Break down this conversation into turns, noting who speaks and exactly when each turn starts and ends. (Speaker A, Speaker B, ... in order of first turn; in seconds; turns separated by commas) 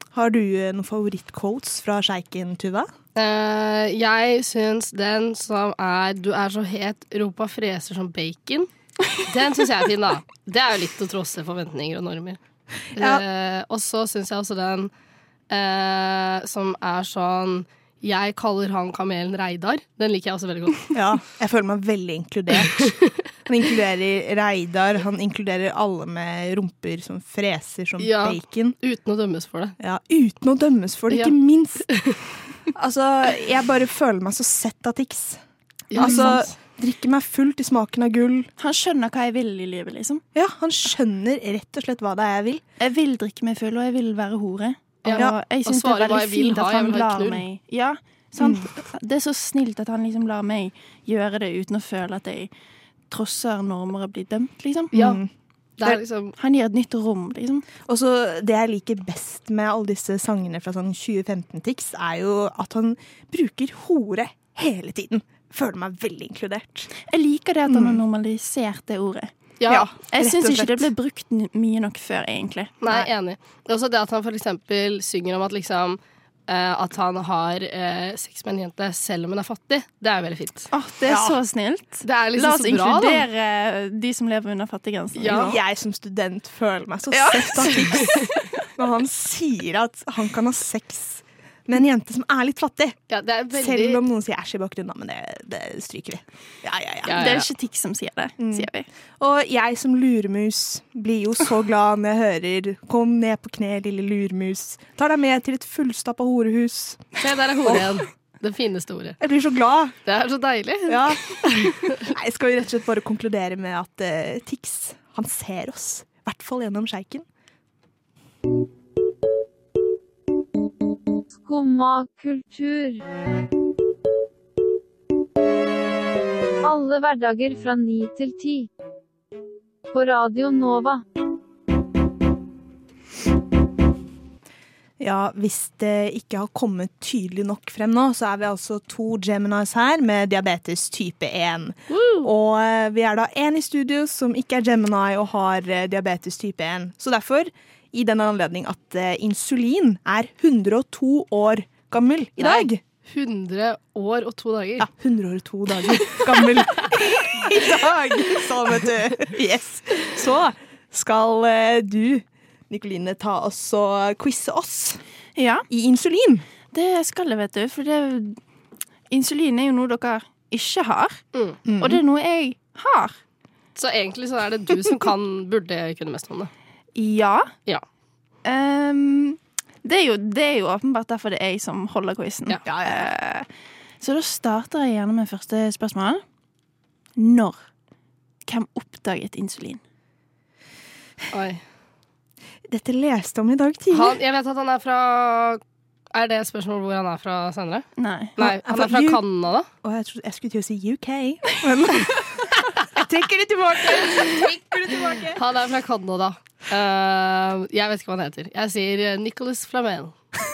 Speaker A: 0.1-2.9, Speaker B: 3.1-12.4, Speaker B: 12.9-14.9, Speaker A: 13.0-13.2, Speaker B: 15.5-21.0, Speaker A: 20.9-22.9, Speaker B: 22.7-23.1, Speaker A: 23.5-28.8, Speaker B: 28.0-29.8, Speaker A: 29.8-31.9, Speaker B: 31.9-32.2, Speaker A: 32.8-35.4, Speaker B: 35.9-36.5, Speaker A: 36.0-38.5, Speaker C: 36.0-36.3, Speaker C: 38.6-40.2, Speaker A: 40.4-42.6, Speaker C: 42.8-52.5, Speaker B: 45.0-47.4, Speaker A: 48.4-48.7, Speaker C: 53.1-55.0, Speaker A: 54.9-55.3, Speaker B: 54.9-55.2, Speaker B: 55.8-56.3, Speaker C: 56.4-57.7, Speaker A: 57.9-66.9, Speaker C: 67.0-69.3, Speaker A: 67.7-68.0, Speaker B: 69.6-69.9, Speaker A: 69.7-70.9, Speaker C: 70.1-72.8, Speaker B: 72.8-80.7, Speaker C: 80.7-85.6, Speaker A: 81.1-81.4, Speaker B: 82.0-83.3, Speaker B: 85.2-85.5, Speaker A: 85.3-88.2, Speaker C: 87.1-88.3, Speaker A: 88.8-93.0, Speaker B: 93.1-94.0, Speaker A: 93.5-97.2, Speaker B: 97.1-97.5, Speaker C: 97.1-98.9, Speaker A: 98.4-107.1, Speaker B: 107.2-109.2, Speaker A: 109.2-110.0, Speaker B: 110.1-112.0, Speaker A: 110.9-117.2, Speaker D: 121.4-123.0, Speaker D: 126.6-128.7, Speaker D: 129.9-131.0, Speaker A: 135.0-152.8, Speaker B: 141.9-142.3, Speaker B: 152.4-154.9, Speaker A: 154.8-165.0, Speaker C: 165.4-165.7, Speaker A: 165.7-166.4, Speaker C: 166.7-168.4, Speaker C: 169.1-171.2, Speaker B: 171.3-171.6, Speaker A: 171.7-172.0, Speaker C: 171.8-173.2, Speaker B: 173.8-176.5, Speaker C: 177.0-177.5, Speaker C: 178.4-183.5, Speaker A: 182.7-183.1, Speaker C: 184.0-186.2, Speaker C: 187.2-187.6, Speaker C: 188.5-189.8, Speaker B: 191.3-191.6, Speaker A: 192.7-194.2, Speaker B: 193.9-195.6, Speaker B: 196.1-197.9, Speaker C: 198.0-198.3, Speaker B: 198.4-199.7, Speaker A: 198.4-199.2, Speaker A: 199.8-205.4, Speaker B: 205.3-210.1